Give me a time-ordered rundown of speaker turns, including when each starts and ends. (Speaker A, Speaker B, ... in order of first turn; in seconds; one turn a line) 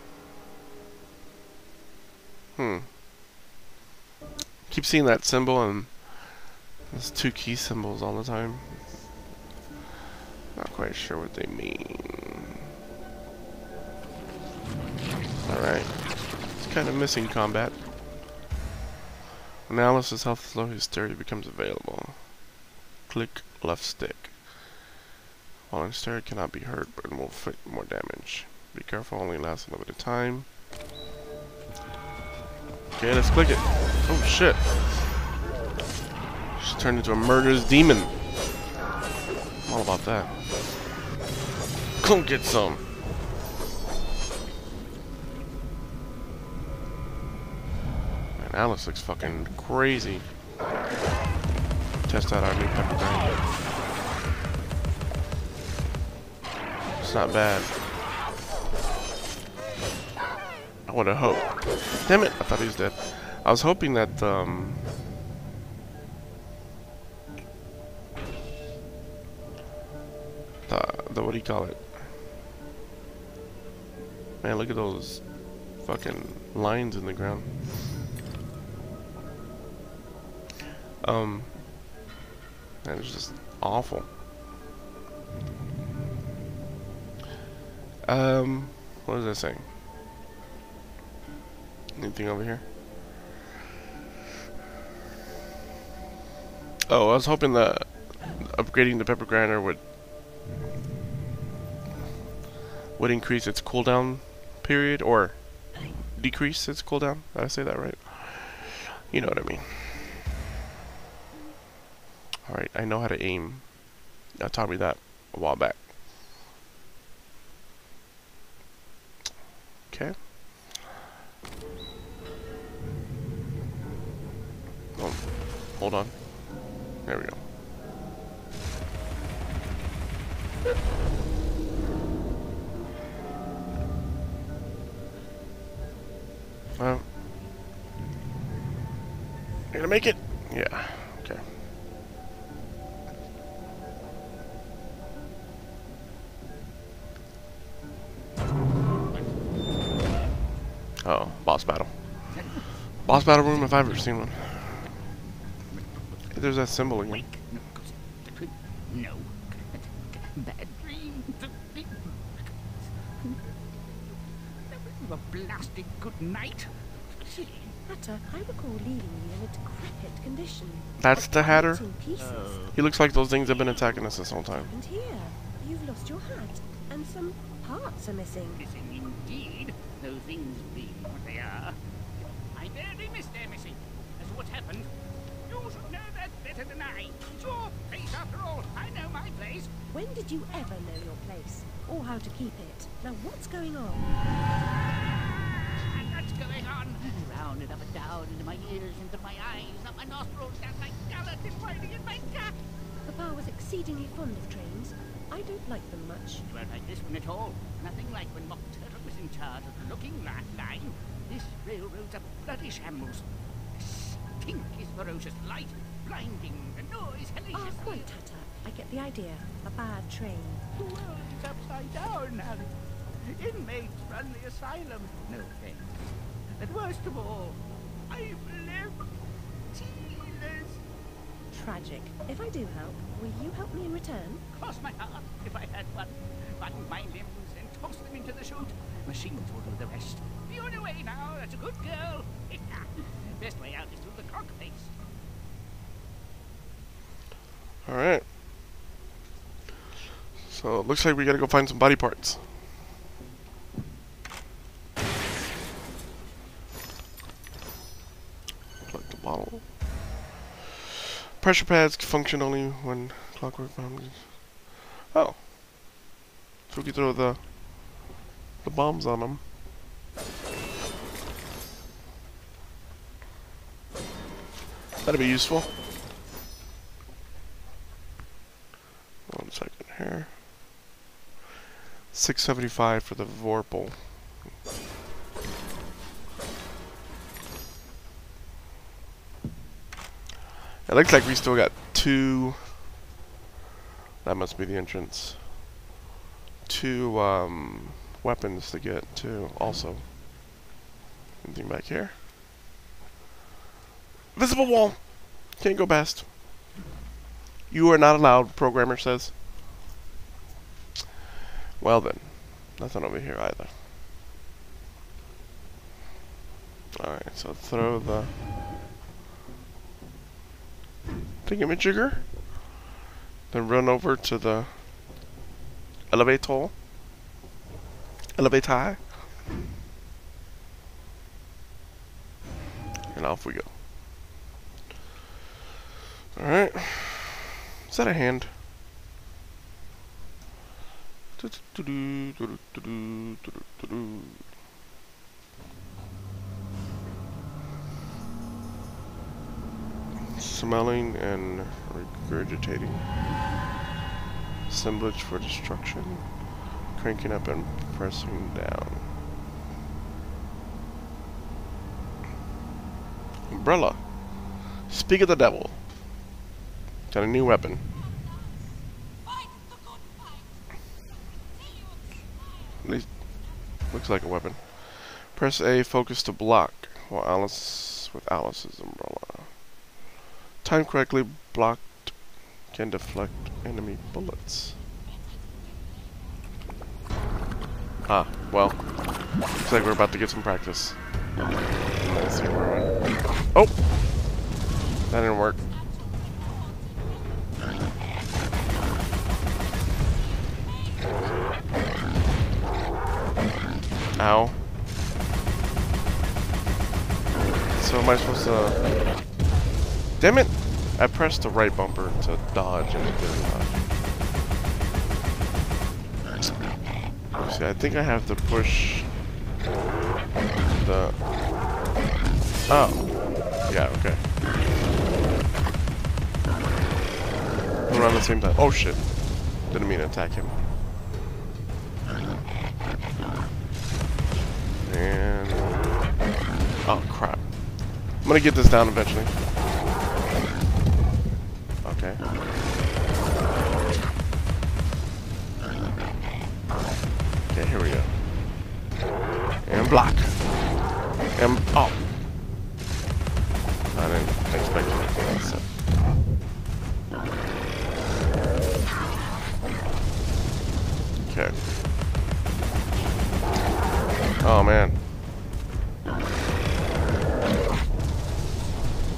Speaker A: 2.5-2.9
Speaker A: 4.7-9.0
Speaker A: 10.5-12.6
Speaker A: 15.4-17.8
Speaker A: 19.7-22.4
Speaker A: 23.1-24.8
Speaker A: 25.7-30.5
Speaker A: 32.9-35.2
Speaker A: 36.5-38.2
Speaker A: 39.6-40.4
Speaker A: 42.0-42.9
Speaker A: 48.4-50.3
Speaker A: 52.0-53.4
Speaker A: 57.0-57.8
Speaker A: 60.9-64.9
Speaker A: 70.7-72.1
Speaker A: 74.4-77.5
Speaker A: 81.0-81.6
Speaker A: 82.8-84.1
Speaker A: 88.0-89.7
Speaker A: 91.9-92.7
Speaker A: 96.9-99.8
Speaker A: 103.0-110.2
Speaker A: 112.4-115.9
Speaker A: 119.9-120.2
Speaker A: 124.9-127.4
Speaker A: 136.8-137.1
Speaker A: 139.7-141.4
Speaker A: 151.0-152.3
Speaker B: 152.3-152.7
Speaker A: 153.0-154.9
Speaker B: 155.7-162.4
Speaker A: 156.3-157.2
Speaker B: 164.7-167.7
Speaker C: 167.3-172.7
Speaker A: 171.0-171.8
Speaker B: 172.1-172.8
Speaker A: 172.7-174.7
Speaker B: 173.4-174.2
Speaker C: 174.6-178.6
Speaker B: 178.6-181.8
Speaker B: 182.5-184.9
Speaker B: 185.4-189.7
Speaker C: 189.9-194.1
Speaker B: 195.8-202.5
Speaker C: 203.1-206.4
Speaker B: 206.4-218.1
Speaker C: 217.5-220.7
Speaker B: 220.8-222.7
Speaker B: 223.2-226.0
Speaker B: 226.6-229.0
Speaker B: 229.7-230.8
Speaker C: 231.5-234.4
Speaker B: 234.5-244.9
Speaker A: 247.8-248.3
Speaker A: 250.4-252.4
Speaker A: 258.9-259.9
Speaker A: 261.4-266.0
Speaker A: 266.7-268.1
Speaker A: 268.6-269.4
Speaker A: 275.0-275.7
Speaker A: 279.2-280.4
Speaker A: 282.1-284.4
Speaker A: 290.9-292.9
Speaker A: 294.2-295.6
Speaker A: 296.6-300.1
Speaker A: 301.4-302.2
Speaker A: 304.3-306.3
Speaker A: 307.7-309.4
Speaker A: 311.8-313.8
Speaker A: 317.0-318.4
Speaker A: 321.4-322.5
Speaker A: 323.5-324.8
Speaker A: 326.1-326.8
Speaker A: 328.3-329.2
Speaker A: 333.1-333.8
Speaker A: 336.3-338.5
Speaker A: 341.4-344.5
Speaker A: 350.4-353.0
Speaker A: 354.7-359.1
Speaker A: 363.5-365.9
Speaker A: 367.1-367.8
Speaker A: 372.8-379.7
Speaker A: 380.6-384.8
Speaker A: 388.1-391.2
Speaker A: 392.0-393.8
Speaker A: 395.1-395.6
Speaker A: 404.1-404.6
Speaker A: 407.7-409.2
Speaker A: 410.2-413.9
Speaker A: 417.4-419.1
Speaker A: 420.8-421.2
Speaker A: 422.7-424.4
Speaker A: 427.9-430.6
Speaker A: 434.8-435.8
Speaker A: 436.8-439.4
Speaker A: 441.8-442.2
Speaker A: 447.5-448.2
Speaker A: 449.6-450.6
Speaker A: 451.3-452.0
Speaker A: 453.9-455.7
Speaker A: 461.2-461.6
Speaker A: 464.4-465.0